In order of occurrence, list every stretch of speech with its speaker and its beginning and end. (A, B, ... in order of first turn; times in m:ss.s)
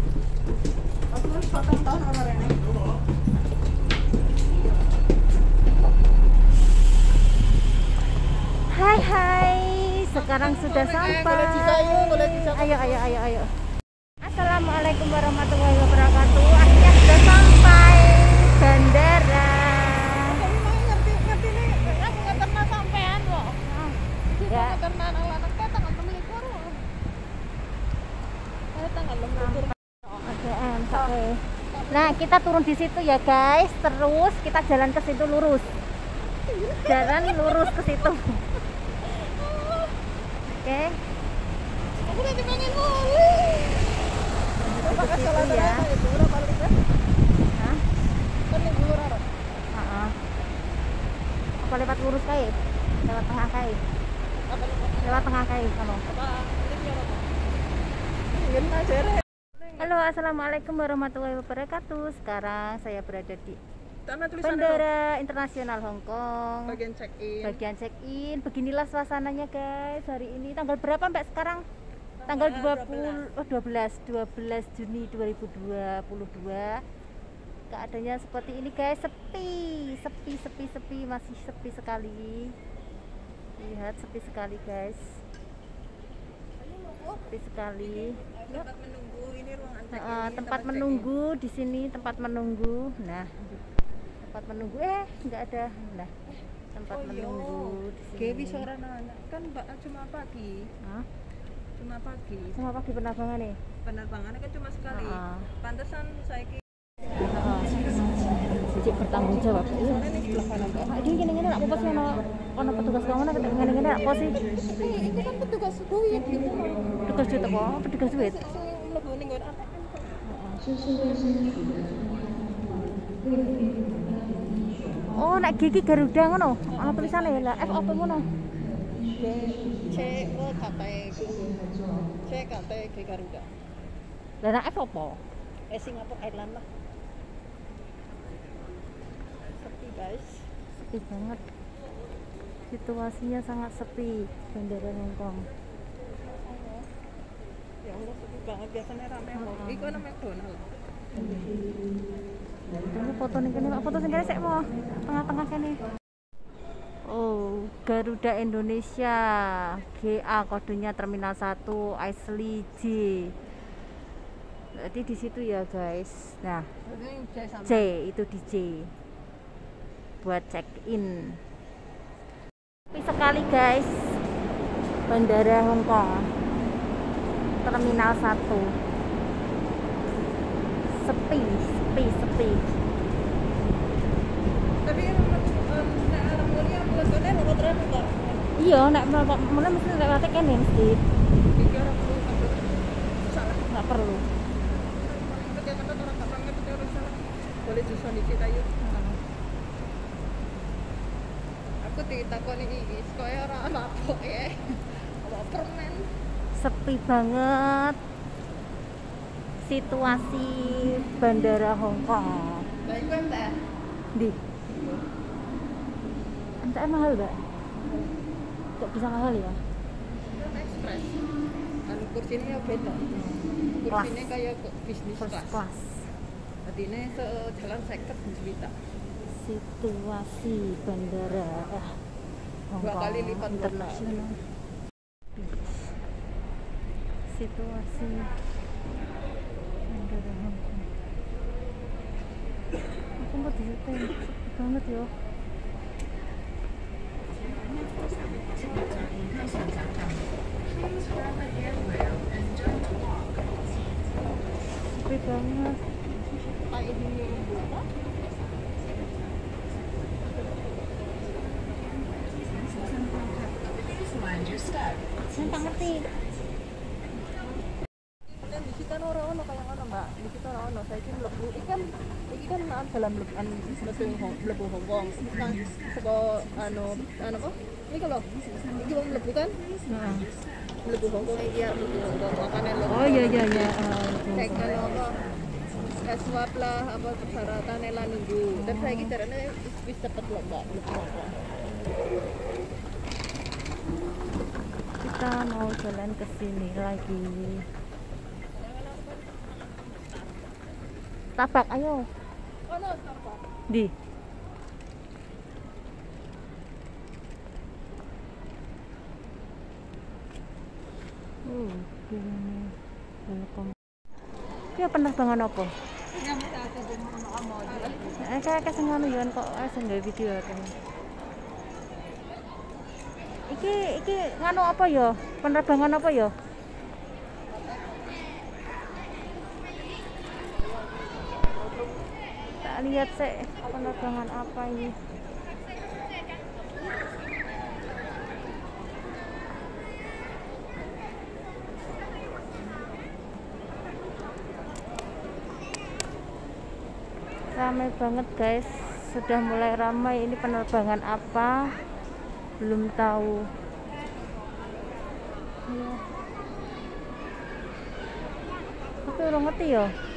0:01.1-0:02.9 A
0:08.7-0:13.5 B
0:10.1-0:13.2 A
0:14.2-0:20.4 B
0:20.2-0:23.6 A
0:21.8-0:22.4 B
0:23.6-0:24.8 B
0:24.3-0:26.8 A
0:28.7-0:29.7 A
0:29.4-0:35.7 B
0:31.7-0:32.2 A
0:36.4-0:37.9 A
0:36.8-0:38.4 B
0:38.8-0:40.0 A
0:40.6-0:41.0 B
0:42.0-0:44.0 A
0:44.6-0:45.8 B
0:44.8-0:46.8 A
0:47.5-0:47.8 B
0:48.4-0:49.3 A
0:49.7-0:50.2 B
0:51.6-0:53.8 B
0:54.5-0:55.3 A
0:55.0-0:56.0 B
0:56.0-0:57.3 A
0:58.3-0:59.8 A
0:59.7-1:03.6 B
1:04.0-1:04.9 A
1:04.4-1:06.8 B
1:06.7-1:07.6 A
1:07.4-1:11.6 B
1:12.2-1:13.2 A
1:12.3-1:16.8 B
1:17.7-1:22.6 B
1:23.6-1:25.2 B
1:26.7-1:27.2 A
1:27.2-1:28.6 B
1:28.0-1:31.1 A
1:29.9-1:33.3 B
1:34.2-1:36.1 B
1:36.7-1:38.7 B
1:36.9-1:40.7 A
1:40.8-1:41.0 B
1:41.8-1:42.6 A
1:42.6-1:43.6 B
1:43.8-1:46.6 A
1:44.9-1:45.5 B
1:47.2-1:50.0 B
1:49.5-1:51.1 A
1:50.8-1:54.5 B
1:54.3-1:57.0 A
1:57.0-1:58.4 B
1:58.1-2:00.2 A
2:00.2-2:00.8 B
2:05.1-2:08.3 B
2:06.7-2:07.8 A
2:09.1-2:11.6 A
2:12.2-2:13.5 A
2:14.4-2:15.2 B
2:15.7-2:16.6 A
2:19.6-2:20.5 A
2:20.9-2:21.4 B
2:22.7-2:25.5 B
2:26.4-2:26.9 A
2:27.8-2:30.8 A
2:29.4-2:30.0 B
2:31.2-2:31.5 B
2:32.8-2:35.8 B
2:37.0-2:43.4 B
2:44.7-2:46.7 B
2:46.8-2:47.9 A
2:47.6-2:48.9 B
2:50.2-2:51.4 B
2:52.9-2:54.2 B
2:55.1-2:56.3 B
2:57.6-2:58.8 B
3:00.9-3:02.8 B
3:04.8-3:08.6 A
3:08.5-3:11.0 B
3:11.5-3:13.8 A
3:13.7-3:14.2 B
3:14.6-3:18.7 A
3:18.8-3:19.2 B
3:21.8-3:26.1 A
3:26.5-3:28.0 B
3:29.6-3:32.7 B
3:32.8-3:33.6 A
3:34.7-3:35.0 A
3:36.6-3:37.5 B
3:38.8-3:39.6 B
3:40.3-3:41.2 A
3:41.9-3:43.1 A
3:43.1-3:44.2 B
3:43.8-3:45.6 A
3:45.2-3:46.1 B
3:46.6-3:48.7 A
3:49.3-3:52.0 B
3:52.7-3:54.4 B
3:52.8-3:54.2 A
3:55.4-3:55.9 B
3:57.3-3:58.3 B
3:59.9-4:00.9 B
4:03.2-4:05.1 B
4:14.8-4:15.9 B
4:16.5-4:17.9 A
4:25.3-4:26.1 B
4:28.3-4:39.6 A
4:39.9-4:40.3 B
4:40.8-4:43.8 A
4:42.9-4:44.8 B
4:44.3-4:45.3 A
4:46.0-4:51.5 A
4:48.5-4:49.1 B
4:55.0-4:57.7 B
4:58.5-5:00.3 A
5:01.4-5:02.1 B
5:02.7-5:03.5 A
5:03.7-5:03.9 B
5:11.4-5:13.7 B
5:14.7-5:15.7 B
5:16.2-5:18.2 A
5:18.1-5:20.8 B
5:23.5-5:26.4 B
5:27.5-5:28.2 A
5:30.7-5:31.5 A
5:32.6-5:35.0 B
5:47.5-5:51.8 B
5:52.6-5:53.5 B
5:55.7-5:56.0 B
5:59.0-5:59.9 B